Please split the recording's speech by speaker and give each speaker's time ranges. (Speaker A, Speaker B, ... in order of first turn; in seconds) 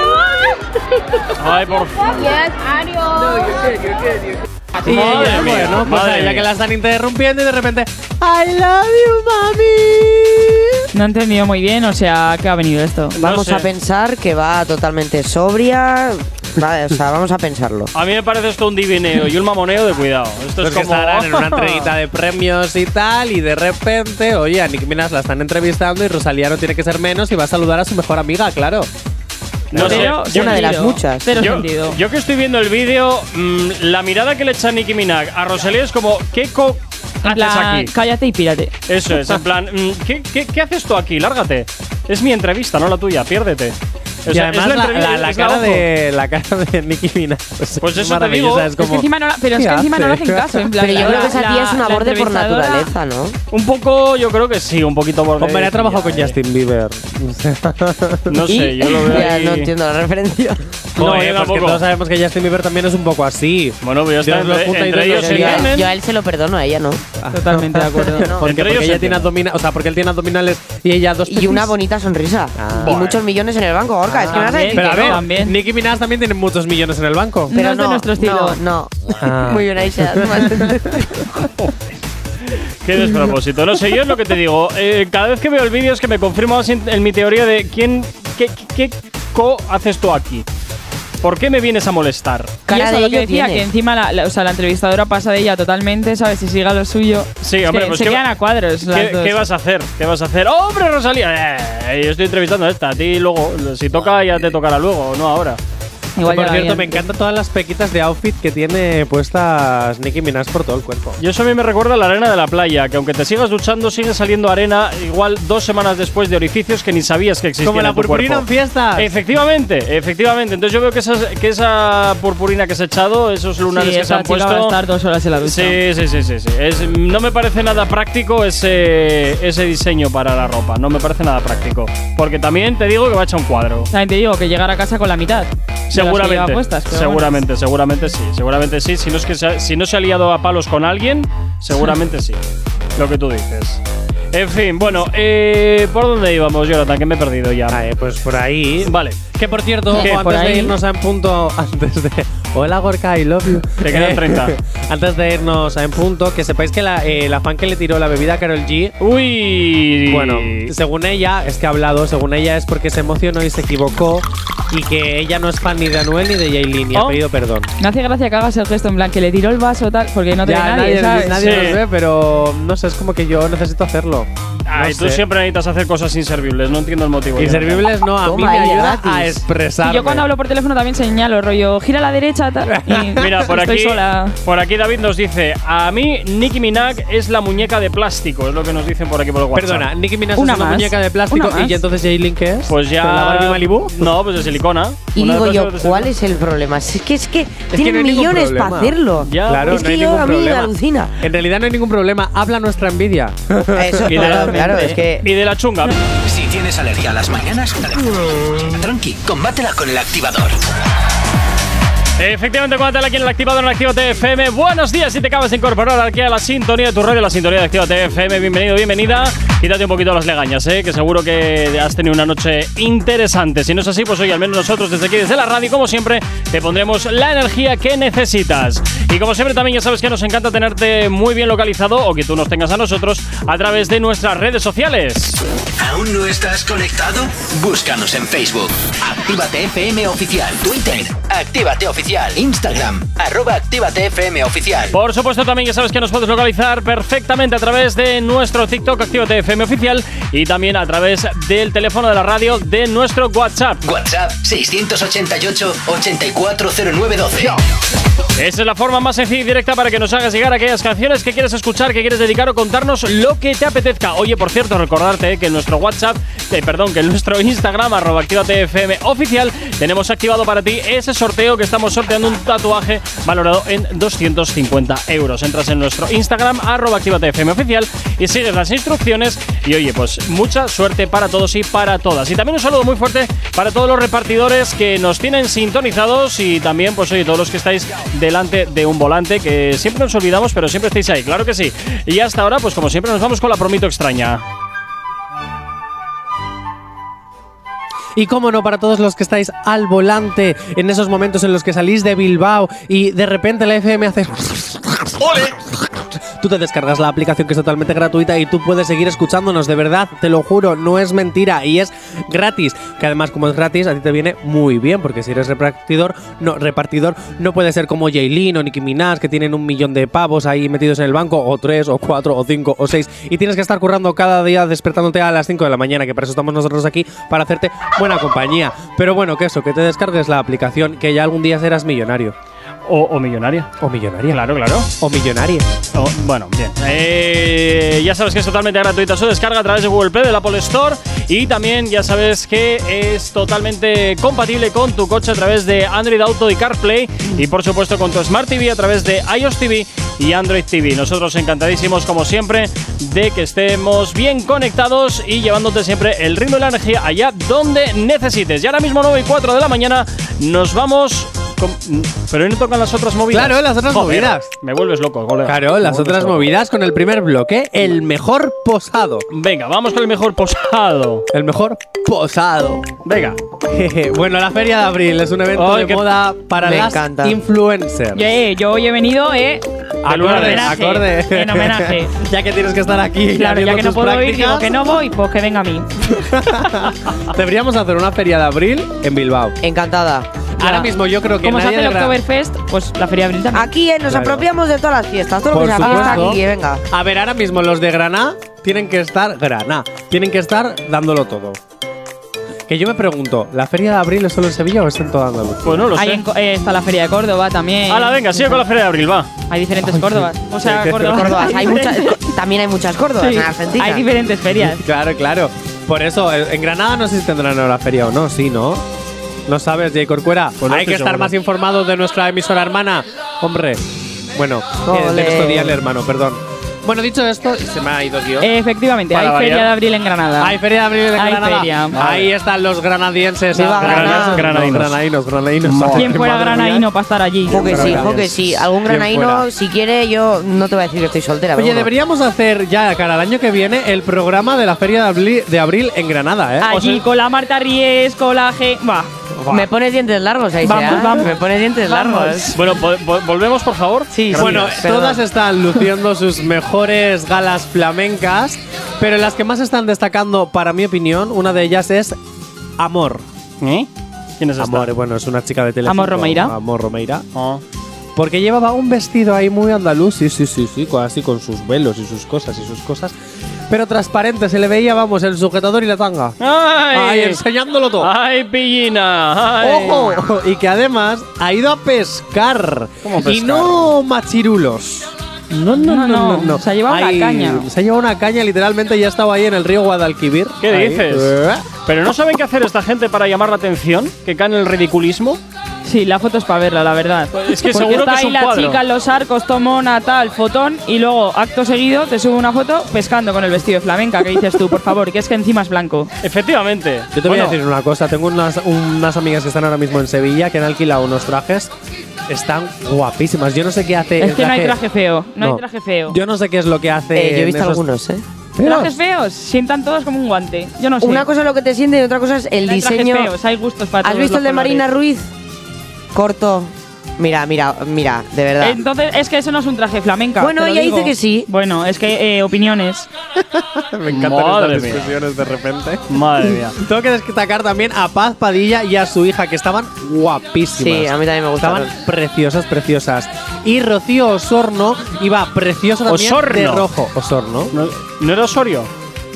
Speaker A: 1.4-2.4, 4.8-6.5, 13.2-13.7, 17.9-21.9, 29.7-30.7, 31.4-37.9, 38.9-45.9, 47.8-48.7, 53.5-56.4, 58.3-59.7, 61.0-61.8, 63.8-65.9, 68.5-69.3, 72.8-73.2, 82.8-90.5, 91.2-92.5, 97.4-98.2, 98.9-105.6, 111.2-124.8, 125.4-133.9, 135.9-142.4, 143.0-143.8, 144.3-147.8, 148.8-149.2, 150.0-150.3, 153.8-154.5, 159.0-160.7, 166.9-167.2, 171.4-171.8, 174.7-177.9, 183.2-189.9, 192.7-196.1, 199.2-199.8, 204.1-205.9, 212.2-235.4, 244.9-253.8, 258.4-294.4, 332.9-333.7, 334.3-334.9, 335.9-366.5, 369.3-371.2, 373.1-373.4, 375.6-376.1, 380.1-380.8, 405.6-406.2, 407.9-409.3, 420.6-421.3, 429.1-429.7, 431.9-432.3, 433.8-435.0, 435.6-436.2, 452.6-454.8, 463.6-463.9, 464.4-464.9, 467.4-467.6, 476.4-477.4, 478.0-480.2, 483.0-483.9, 490.6-495.4, 497.3-498.8, 506.2-507.6, 534.1-535.2, 536.1-536.8, 546.1-546.9, 547.7-548.9
Speaker B: 4.8-10.8, 20.6-28.9, 29.7-30.1, 44.3-51.2, 55.4-58.5, 61.0-65.7, 67.2-71.7, 72.6-73.0, 74.1-77.5, 79.2-80.9, 106.2-111.2, 117.6-119.1, 147.7-158.9, 160.1-167.7, 170.4-175.2, 177.4-180.2, 182.7-183.4, 189.5-194.1, 197.7-204.5, 298.2-332.4, 333.8-334.4, 335.0-335.7, 363.3-364.5, 365.4-369.2, 371.3-372.9, 373.7-378.3, 380.0-384.7, 386.0-389.6, 390.6-392.2, 394.1-394.5, 395.5-401.6, 402.7-405.9, 409.8-411.3, 414.6-418.8, 419.5-423.8, 424.3-428.5, 430.4-436.9, 437.5-439.5, 441.6-447.1, 449.4-449.7, 454.3-462.2, 462.8-463.2, 464.6-467.2, 468.1-473.2, 473.7-476.4, 476.9-478.1, 479.6-491.7, 507.1-511.7, 512.3-514.8, 515.4-517.8, 518.6-519.0, 533.4-547.7
Speaker C: 10.9-13.2, 29.8-32.0, 37.2-38.7, 48.8-52.9, 67.3-68.3, 74.3-75.6, 77.5-78.6, 92.7-99.4, 106.2-107.0, 123.7-125.8, 133.9-137.3, 149.9-150.7, 167.8-171.6, 179.8-184.3, 190.4-191.8, 204.3-205.0, 378.1-382.1, 383.4-385.9, 390.6-390.9, 391.4-393.7, 395.8-396.4, 406.0-408.6, 409.5-412.2, 413.2-414.8, 428.4-430.6, 431.1-432.0, 436.0-438.0, 446.6-449.1, 450.6-452.6, 465.9-466.6, 485.8-487.7, 495.8-506.1, 514.2-516.2, 518.6-521.3, 522.7-524.8, 528.6-533.1
Speaker D: 13.2-17.9, 29.8-31.4, 50.8-53.4, 58.5-60.6, 65.1-67.0, 71.3-75.2, 77.5-81.2, 92.7-93.7, 178.2-179.4, 195.2-201.1, 203.8-205.3, 376.6-377.4, 389.6-390.7, 393.5-396.8, 411.0-414.1, 424.9-425.8, 433.5-434.5, 437.5-441.9, 449.5-452.6, 454.1-455.2, 517.1-518.2, 521.0-523.3, 524.0-525.3, 526.1-528.8, 530.4-531.5, 540.8-541.9
Speaker E: 206.2-210.6, 235.8-245.0, 253.8-257.6